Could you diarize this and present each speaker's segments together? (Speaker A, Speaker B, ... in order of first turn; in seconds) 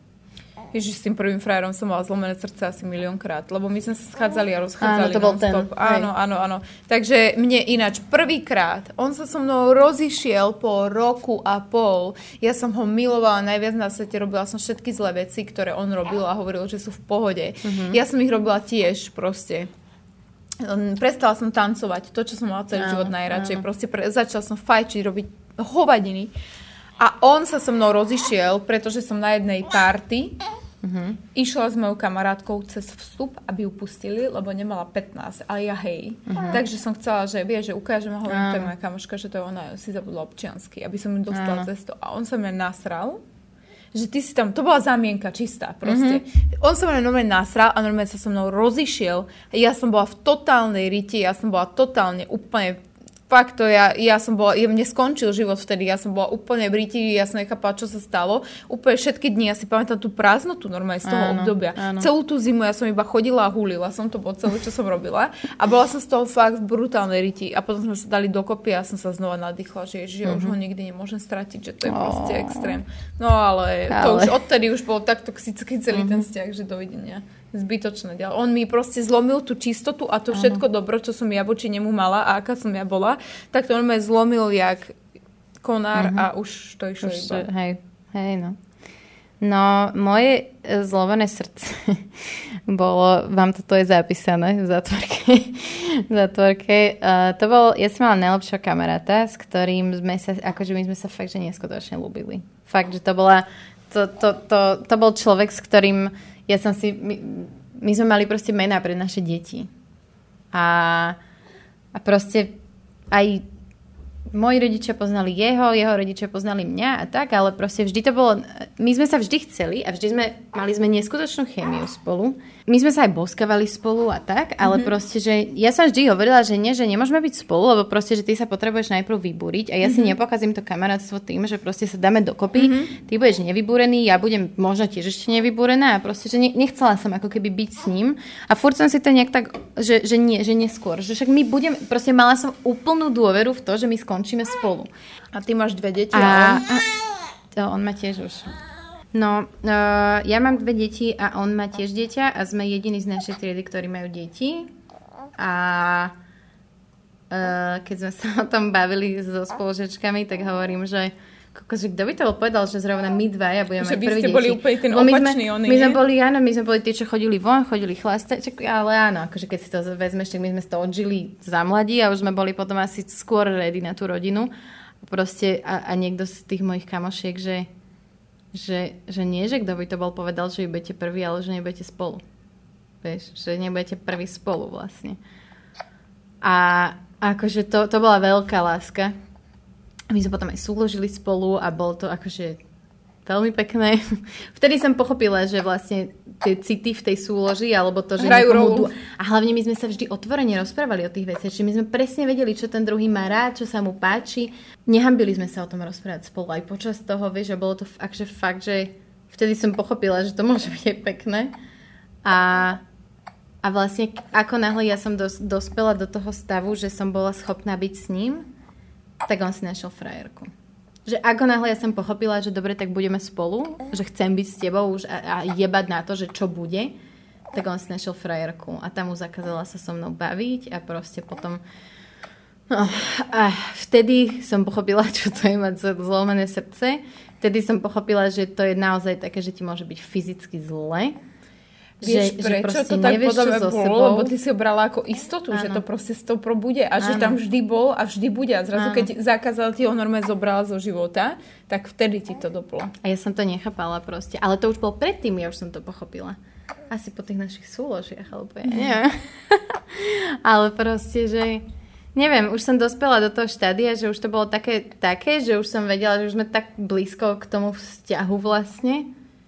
Speaker A: 0.7-19.7, 20.6-26.3, 27.0-30.4, 31.3-43.2, 43.9-85.0, 85.6-87.5, 129.8-130.1, 132.6-132.9, 145.3-146.6, 163.8-166.0, 198.2-198.9, 242.0-252.9
Speaker B: 4.8-6.1, 17.6-18.0, 22.8-23.6, 30.8-31.2, 36.3-36.6, 38.3-38.7, 41.3-41.7, 45.9-46.2, 61.0-62.1, 70.2-70.5, 71.8-72.8, 73.9-74.4, 75.9-76.2, 80.3-80.6, 85.9-86.3, 87.0-88.6, 89.4-109.7, 110.5-111.2, 111.9-112.5, 113.1-113.4, 114.3-144.9, 146.1-147.0, 147.5-148.5, 149.1-154.7, 155.4-156.1, 157.3-174.5, 175.0-177.7, 178.5-182.2, 183.0-185.2, 186.4-189.2, 190.1-192.6, 193.2-211.5, 212.2-212.8, 213.6-218.5, 219.2-220.5, 221.1-226.9, 227.5-231.6, 232.7-241.2, 242.0-244.3, 245.5-245.8, 247.0-247.4, 248.7-249.1, 253.0-256.4, 256.9-269.1